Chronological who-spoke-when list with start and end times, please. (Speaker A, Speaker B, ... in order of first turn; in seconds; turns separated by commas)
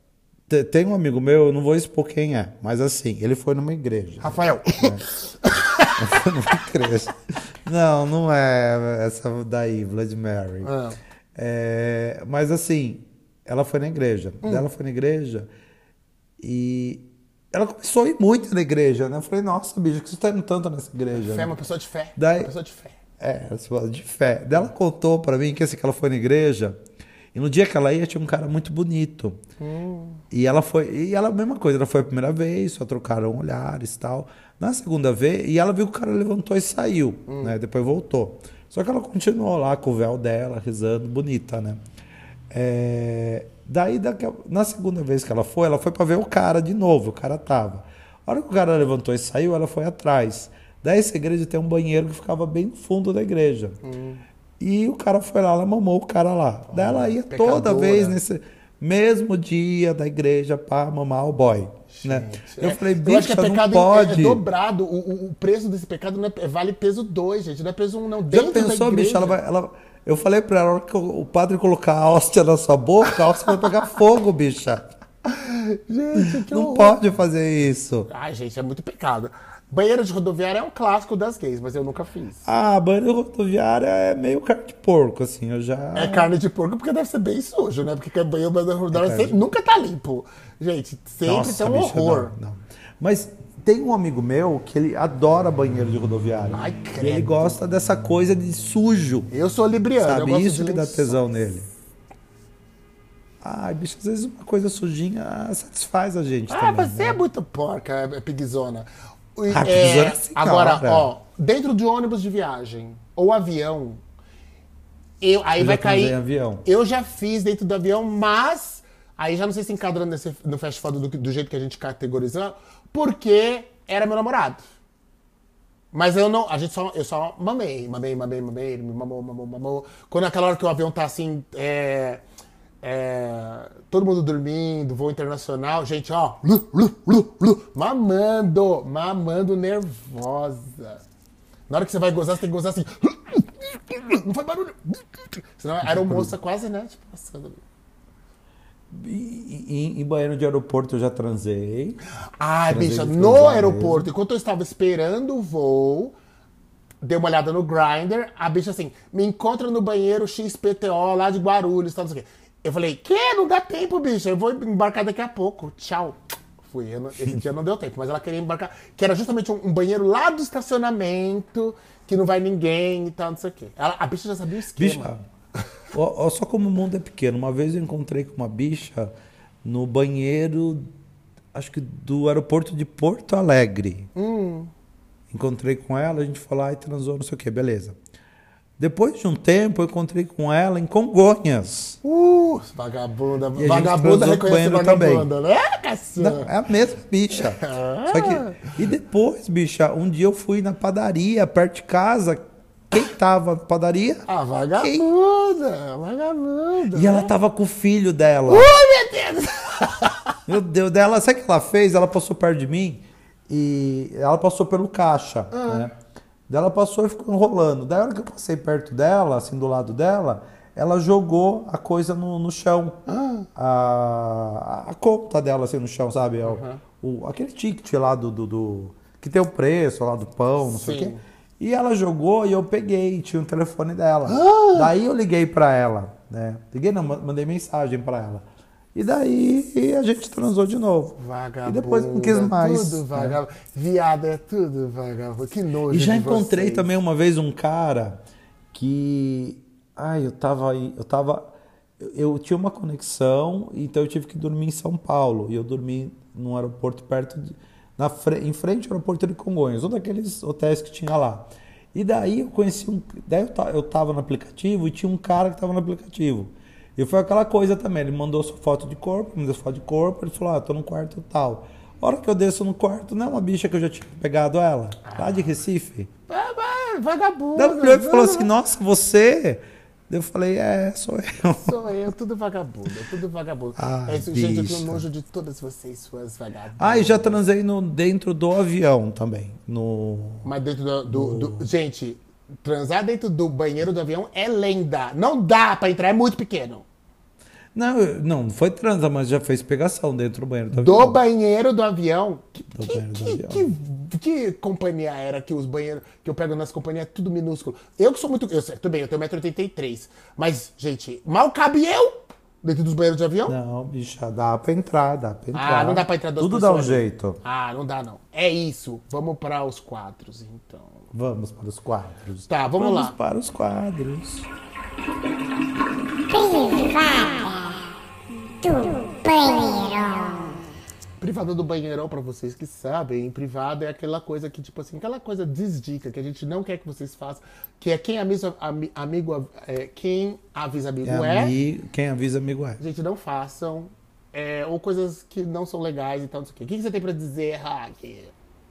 Speaker A: 0.5-5.0, Speaker B: 4.2-6.3, Speaker A: 6.0-10.7, Speaker B: 10.6-11.0, Speaker A: 11.3-15.5, Speaker A: 16.4-21.6, Speaker B: 21.1-23.0, Speaker A: 22.2-22.5, Speaker A: 23.2-26.8, Speaker A: 27.3-29.4, Speaker B: 29.6-30.2, Speaker A: 30.3-41.8, Speaker B: 37.3-37.5, Speaker A: 42.5-53.8, Speaker B: 53.8-54.2, Speaker A: 54.6-64.4, Speaker B: 56.7-58.2, Speaker B: 61.9-69.4, Speaker A: 68.3-74.9, Speaker B: 75.2-77.0, Speaker A: 76.2-78.1, Speaker B: 78.1-82.5, Speaker A: 82.5-86.3, Speaker B: 86.0-92.3, Speaker A: 88.9-89.4, Speaker A: 91.3-99.3, Speaker B: 96.5-97.6, Speaker B: 99.3-101.5, Speaker A: 100.0-101.7, Speaker A: 103.4-107.2, Speaker B: 106.5-114.0, Speaker A: 109.5-111.1, Speaker B: 115.2-124.6, Speaker A: 115.6-116.7, Speaker B: 125.9-132.2, Speaker B: 132.8-141.0, Speaker B: 141.7-147.6, Speaker A: 145.8-146.3, Speaker A: 148.9-152.0, Speaker B: 152.4-156.1, Speaker A: 152.7-154.1, Speaker B: 157.0-175.1, Speaker A: 174.8-175.2, Speaker A: 175.9-179.1, Speaker A: 179.6-180.9, Speaker A: 181.5-184.1, Speaker B: 184.2-184.7, Speaker A: 185.3-188.0, Speaker A: 188.8-192.0, Speaker B: 192.0-196.5, Speaker A: 193.6-195.3, Speaker A: 196.2-204.3, Speaker B: 197.4-198.7, Speaker B: 204.3-207.3, Speaker A: 204.8-205.1, Speaker A: 206.9-208.7, Speaker B: 208.5-210.3, Speaker A: 210.5-215.9, Speaker B: 215.5-215.9, Speaker A: 216.5-223.0, Speaker B: 223.1-223.5, Speaker A: 223.6-243.4, Speaker B: 226.4-226.8, Speaker B: 230.6-231.2, Speaker B: 234.3-234.9, Speaker B: 241.2-246.9, Speaker A: 245.9-248.2, Speaker A: 248.7-276.1, Speaker B: 275.1-275.4, Speaker B: 276.3-278.5, Speaker A: 277.6-281.8, Speaker B: 281.6-287.4, Speaker A: 283.8-285.0, Speaker A: 286.8-290.5, Speaker B: 290.4-296.9, Speaker A: 291.1-291.7, Speaker A: 297.7-301.2, Speaker B: 300.7-313.6, Speaker A: 302.7-303.7, Speaker A: 313.5-317.4, Speaker B: 315.5-321.0, Speaker A: 321.1-324.5, Speaker B: 322.5-323.1, Speaker C: 326.6-327.5, Speaker C: 328.7-330.5, Speaker B: 331.2-341.5, Speaker A: 341.0-342.8, Speaker B: 342.8-348.3